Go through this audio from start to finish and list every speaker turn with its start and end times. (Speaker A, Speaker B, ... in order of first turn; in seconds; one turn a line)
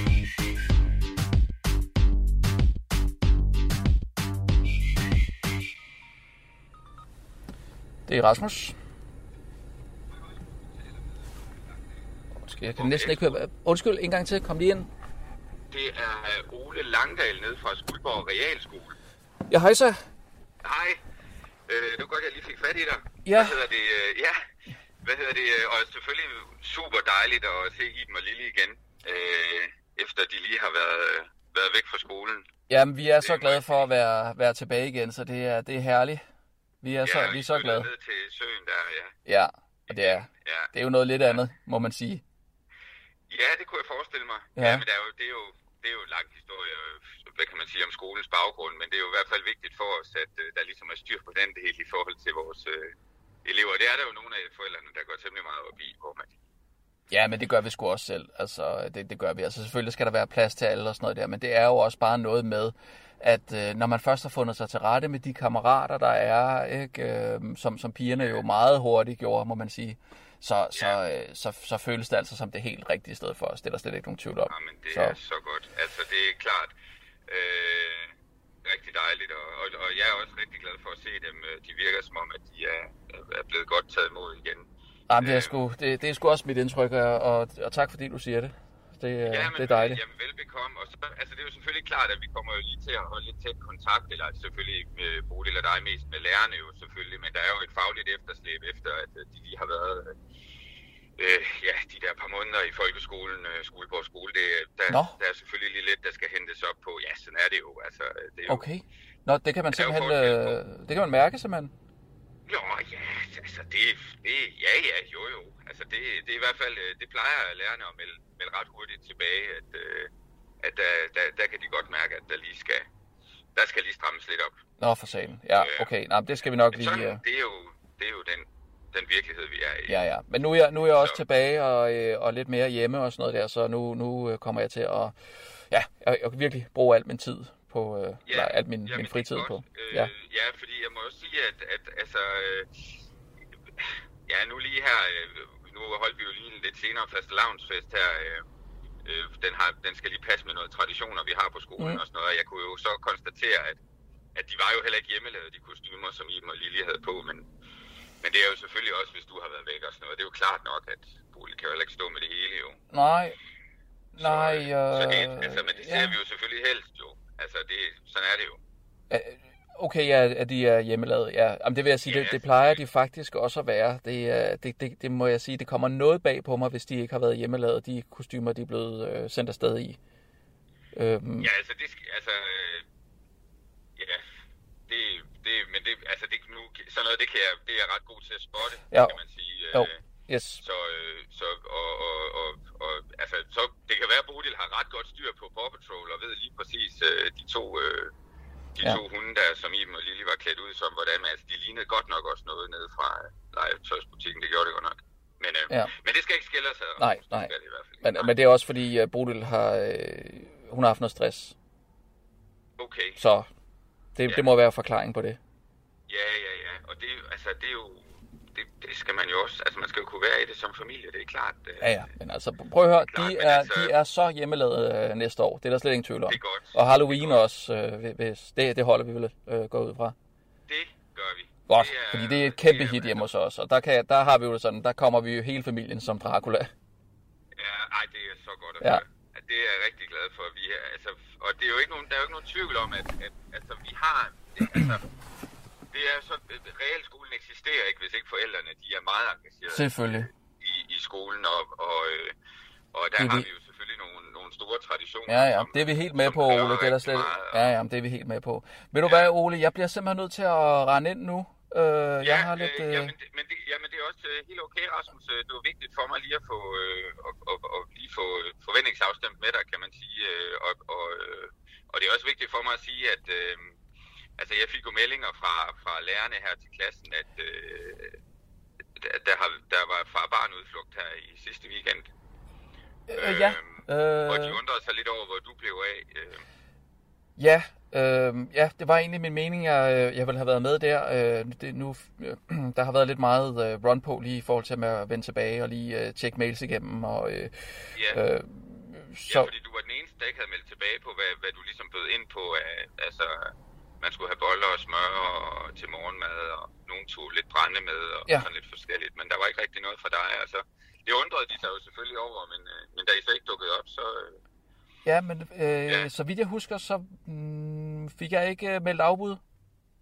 Speaker A: 8.1-8.7
Speaker A: 12.4-14.9
Speaker B: 12.8-13.4
Speaker B: 15.7-19.0
Speaker A: 19.5-20.0
Speaker B: 20.6-21.0
Speaker B: 21.7-24.4
Speaker A: 23.2-23.6
Speaker B: 25.0-32.5
Speaker A: 32.7-36.2
Speaker B: 33.2-33.9
Speaker A: 36.8-37.9
Speaker B: 37.0-39.1
Speaker A: 39.3-42.2
Speaker B: 39.9-40.7
Speaker B: 43.3-52.9
Speaker A: 44.6-44.9
Speaker B: 53.5-56.3
Speaker A: 57.1-75.2
Speaker B: 74.5-76.7
Speaker B: 77.3-78.1
Speaker B: 78.6-84.7
Speaker A: 85.1-90.0
Speaker B: 85.2-85.5
Speaker B: 89.3-100.2
Speaker B: 101.2-108.6
Speaker A: 104.9-105.2
Speaker A: 108.5-111.7
Speaker B: 109.7-110.6
Speaker B: 112.5-120.1
Speaker B: 120.6-122.9
Speaker B: 123.5-124.6
Speaker A: 124.8-127.2
Speaker B: 125.5-125.9
Speaker B: 126.7-130.0
Speaker A: 129.9-135.1
Speaker B: 130.9-131.2
Speaker A: 135.7-140.1
Speaker B: 138.3-143.0
Speaker B: 143.8-148.4
Speaker B: 149.1-153.8
Speaker B: 154.3-157.5
Speaker B: 158.2-162.8
Speaker A: 162.9-163.4
Speaker B: 164.2-168.6
Speaker A: 164.2-166.1
Speaker A: 169.1-180.0
Speaker B: 172.1-172.4
Speaker A: 180.9-181.5
Speaker B: 181.4-182.8
Speaker B: 184.0-184.3
Speaker B: 184.9-190.0
Speaker A: 188.9-189.2
Speaker A: 189.7-190.6
Speaker B: 190.6-198.1
Speaker B: 198.8-208.3
Speaker A: 207.0-211.6
Speaker B: 212.8-213.2
Speaker A: 213.2-213.5
Speaker A: 214.2-215.4
Speaker B: 216.1-221.9
Speaker A: 221.8-230.2
Speaker B: 223.1-223.9
Speaker B: 226.3-227.4
Speaker B: 230.7-233.3
Speaker A: 231.7-236.7
Speaker B: 237.6-245.1
Speaker B: 245.9-252.3
Speaker A: 249.7-250.3
Speaker B: 252.9-257.7
Speaker A: 253.2-253.5
Speaker A: 255.3-263.1
Speaker B: 259.1-259.3
Speaker B: 262.2-273.8
Speaker B: 274.4-278.2
Speaker B: 279.0-282.1
Speaker A: 283.1-284.6
Speaker B: 283.1-286.4
Speaker A: 287.4-299.5
Speaker B: 299.3-314.4
Speaker A: 315.1-319.4